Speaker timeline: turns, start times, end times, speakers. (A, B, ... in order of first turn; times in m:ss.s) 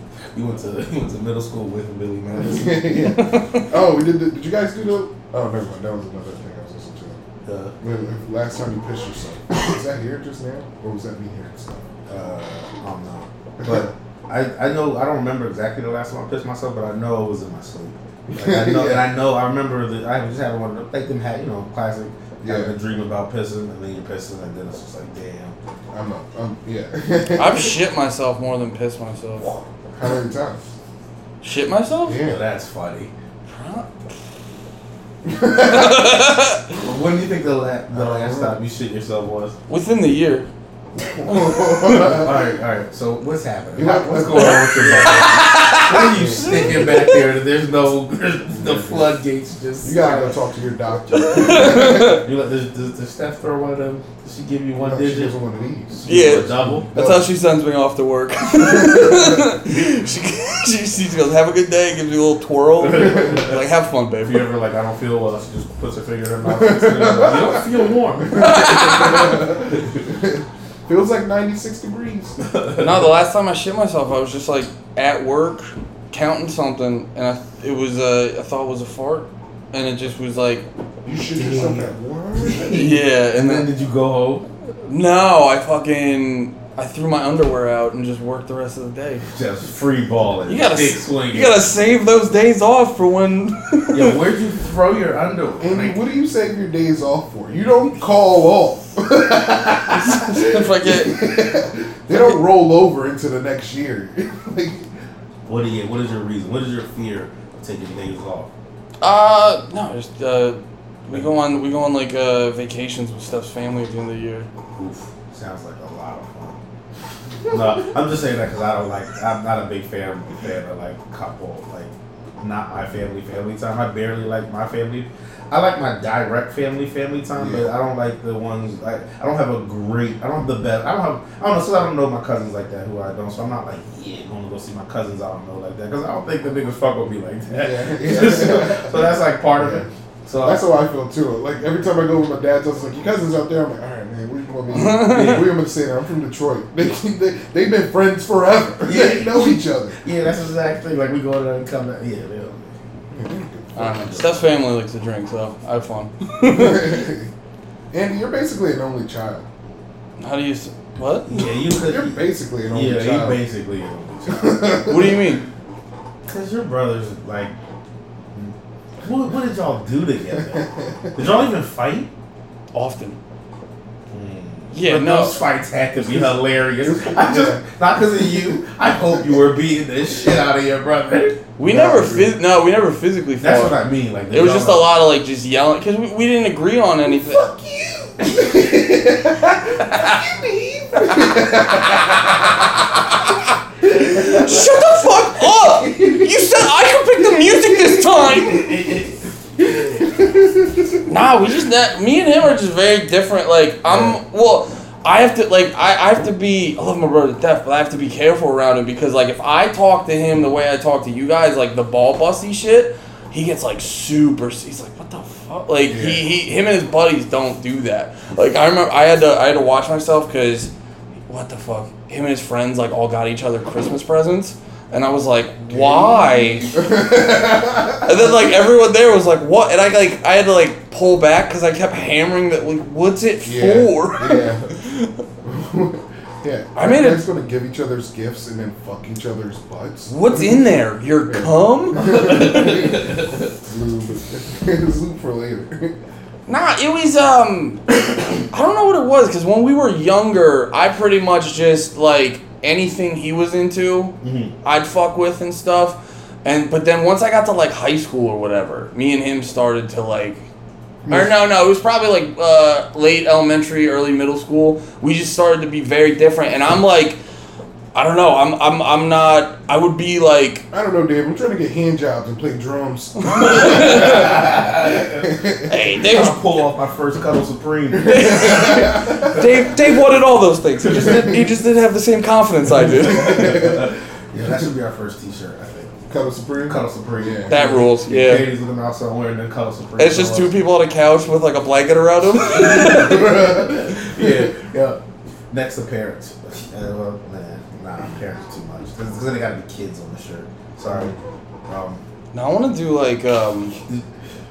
0:00.3-0:03.1 A
0:02.4-0:07.2 B
0:03.0-0:03.7 C
0:07.4-0:07.7 A
0:07.8-0:11.9 B
0:12.1-0:25.6 A
0:13.6-0:13.9 B
0:18.3-0:19.0 B
0:22.4-0:22.7 B
0:25.9-0:27.7 B
0:27.4-0:29.4 C
0:30.0-0:30.6 B
0:31.4-0:32.2 C
0:32.1-0:32.4 B
0:32.2-0:33.1 A
0:33.5-0:33.9 C
0:35.2-0:36.1 B
0:35.6-0:36.6 C
0:36.7-0:39.5 A
0:37.9-0:38.5 B
0:39.7-0:40.5 C
0:41.0-0:42.3 B
0:41.3-0:42.0 C
0:41.9-0:50.4 A
0:43.7-0:45.3 B
0:44.3-0:47.2 C
0:45.9-0:46.9 B
0:48.5-0:49.1 B
0:49.8-0:52.2 B
0:51.1-0:52.2 C
0:51.5-0:55.3 A
0:54.8-0:57.3 B
0:56.0-0:56.9 A
0:56.0-1:04.5 C
0:58.6-0:59.2 B
1:02.8-1:03.6 A
1:04.2-1:10.0 A
1:06.4-1:07.7 B
1:08.3-1:12.4 B
1:08.3-1:09.4 C
1:12.4-1:13.0 A
1:12.8-1:20.6 C
1:21.0-1:22.8 B
1:21.3-1:24.5 A
1:22.7-1:23.7 C
1:24.9-1:29.2 C
1:29.3-1:31.6 A
1:30.5-1:34.1 C
1:33.9-1:36.0 A
1:35.6-1:44.9 B
1:39.9-1:41.2 C
1:45.4-1:48.5 A
1:49.0-1:54.5 C
1:54.8-1:56.6 A
1:57.5-2:20.6 A
2:07.4-2:07.7 B
2:17.5-2:19.0 B
2:19.5-2:19.9 B
2:20.4-2:30.0 B
2:24.7-2:25.5 C
2:25.1-2:25.5 A
2:28.8-2:32.7 A
2:33.1-2:33.8 B
2:33.8-2:37.0 C
2:33.8-2:34.5 A
2:36.4-2:37.3 B
2:37.9-2:39.4 B
2:40.2-2:41.3 C
2:41.2-2:44.9 A
2:41.7-2:43.4 B
2:44.3-2:45.2 B
2:44.8-2:45.4 C
2:46.2-2:47.5 A
2:48.3-2:52.1 A
2:50.5-2:50.9 B
2:52.7-2:53.2 C
2:54.1-3:01.4 A
2:54.7-2:55.3 C
2:56.0-2:57.6 B
3:01.6-3:03.8 C
3:01.6-3:02.3 B
3:03.4-3:04.9 A
3:04.3-3:07.4 C
3:07.2-3:12.6 B
3:13.3-3:18.7 C
3:18.3-3:20.1 A
3:20.0-3:20.7 B
3:21.1-3:40.7 C
3:35.9-3:36.3 B
3:41.3-3:46.8 C
3:45.7-3:48.3 B
3:48.0-3:55.1 C
3:53.4-3:54.7 B
3:55.4-4:00.6 B
3:56.7-3:57.2 C
4:00.1-4:02.6 C
4:01.3-4:05.9 B
4:02.3-4:02.6 A
4:06.5-4:20.4 C
4:14.2-4:14.5 A
4:21.1-4:27.2 C
4:27.9-4:30.6 C
4:30.7-4:35.7 B
4:33.2-4:34.4 C
4:33.4-4:35.3 A
4:35.6-4:36.4 C
4:36.0-4:39.5 A
4:38.0-4:39.3 B
4:38.0-4:43.5 C
4:42.9-4:46.0 A
4:43.0-4:43.8 B
4:46.1-4:47.8 B
4:46.6-4:50.5 A
4:47.5-4:48.5 C
4:50.0-4:53.5 C
4:52.4-4:55.0 A
4:53.2-4:53.7 B
4:55.5-5:01.1 A
5:01.7-5:02.0 A
5:02.3-5:03.8 C